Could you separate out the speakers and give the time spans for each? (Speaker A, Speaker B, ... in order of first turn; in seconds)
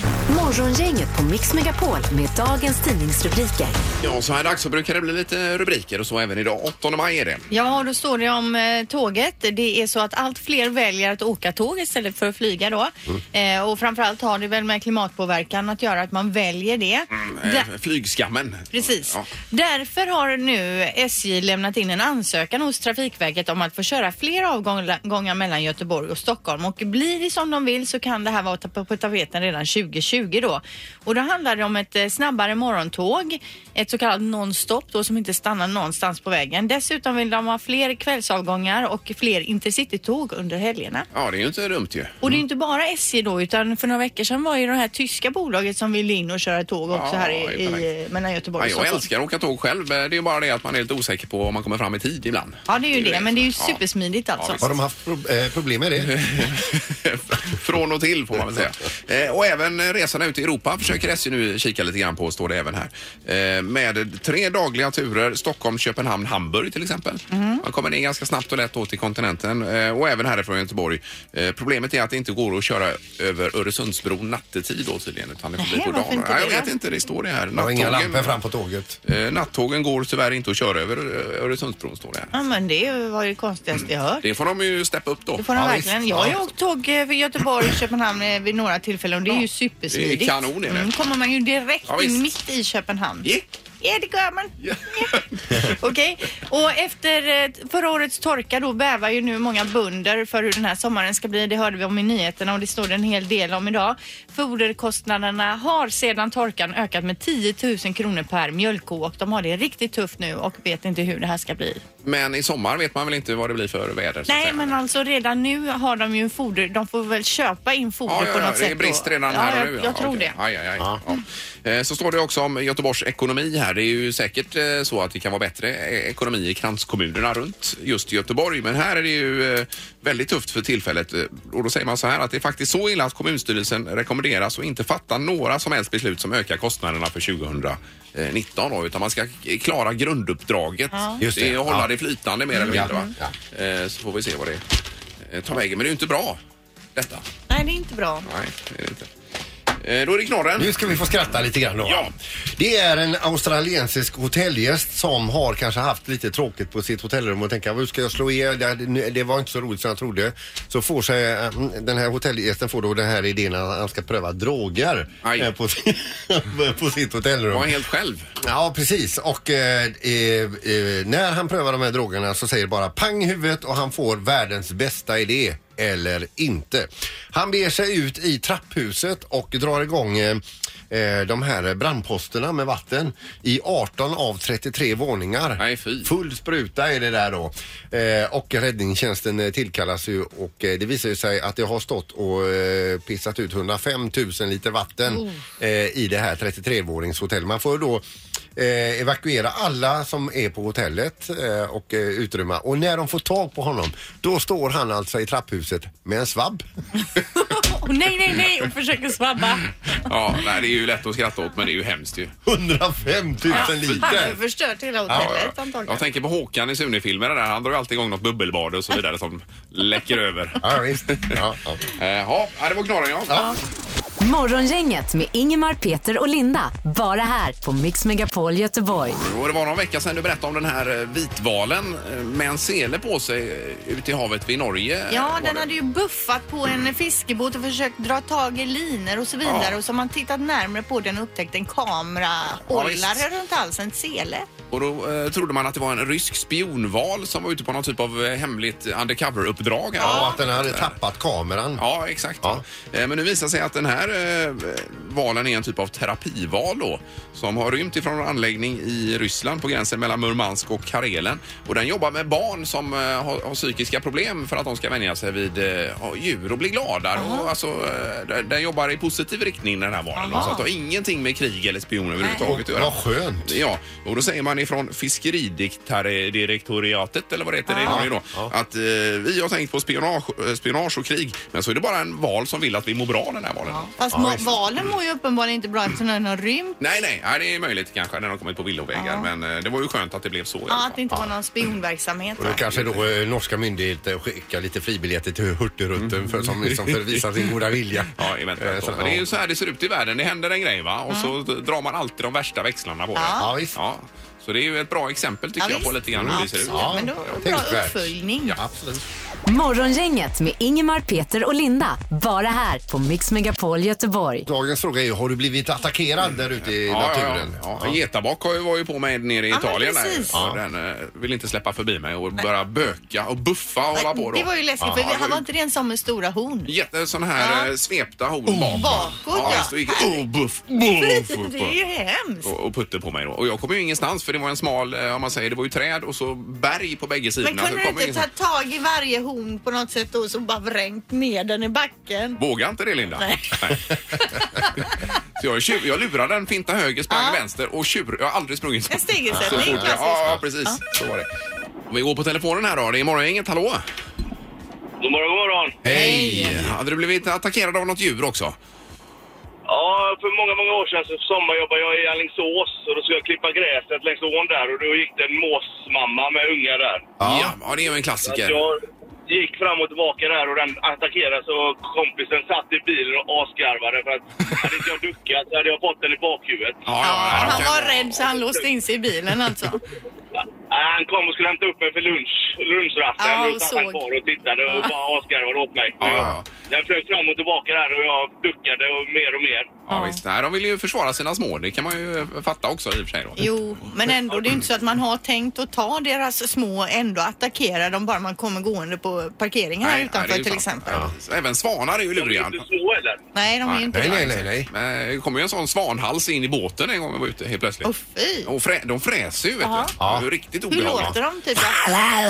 Speaker A: 0.3-3.8, 224.2-229.2, 309.5-314.5
Speaker B: 4.0-7.5, 17.1-19.3, 41.1-42.2, 46.9-47.9, 48.6-53.8, 54.4-54.8, 56.0-78.4, 79.0-82.3, 84.2-85.4, 89.9-90.9, 91.9-92.2, 94.6-95.7, 112.0-114.8, 118.1-144.6, 145.2-146.4, 146.9-147.2, 148.2-149.1, 149.8-151.1, 151.8-152.1, 165.2-165.5, 167.5-168.3, 185.6-186.1, 210.0-212.3, 213.5-214.3, 215.1-221.4, 221.9-223.5, 229.2-235.7, 239.4-239.8, 242.7-243.2, 244.7-250.9, 251.8-283.9, 286.8-291.0, 292.7-293.0, 296.0-297.2, 298.1-307.4, 316.8-325.4, 326.6-331.8, 332.4-338.3, 342.4-344.9, 345.4-351.3, 351.9-353.8, 355.9-358.6, 367.2-368.6, 376.9-378.1, 386.0-386.4, 389.9-393.5, 399.8-402.6, 403.6-407.9, 408.4-411.1
Speaker C: 7.5-17.7, 18.7-41.1, 42.2-49.1, 52.7-54.6, 67.3-67.6, 75.6-76.7, 82.3-84.2, 85.4-93.3, 93.8-111.8, 114.3-120.3, 140.9-141.2, 142.6-143.1, 147.5-148.3, 195.1-195.4, 207.2-209.7, 213.5-216.0, 235.1-244.4, 250.0-250.3, 267.1-267.5, 270.1-270.6, 277.7-278.1, 283.7-286.8, 288.9-289.3, 290.7-292.6, 303.1-303.5, 305.6-308.6, 319.5-320.4, 323.9-326.7, 327.4-327.7, 328.5-330.2, 330.9-332.5, 337.4-342.4, 343.2-343.6, 344.2-344.8, 347.1-347.4, 348.9-350.8, 355.9-356.6, 377.0-379.8, 383.2-384.0, 389.9-390.2, 393.4-401.0, 403.3-404.3, 407.8-408.5, 409.6-409.9, 410.7-411.9
Speaker D: 54.6-56.6, 77.5-79.0, 85.5-86.4, 141.2-141.9, 142.6-143.3, 150.6-167.8, 168.4-198.0, 198.6-206.6, 212.4-214.3, 220.6-221.8, 250.0-251.8, 272.3-273.6, 277.8-278.5, 284.1-284.5, 292.4-299.2, 303.4-303.8, 306.1-309.0, 314.5-318.0, 320.3-320.6, 329.4-329.7, 349.3-350.4, 355.8-356.7, 367.2-367.5, 403.9-404.7, 410.0-410.3, 410.8-411.1
Speaker E: 355.0-355.8, 359.7-367.1, 368.2-376.9, 377.7-378.4, 380.7-389.8, 402.1-403.2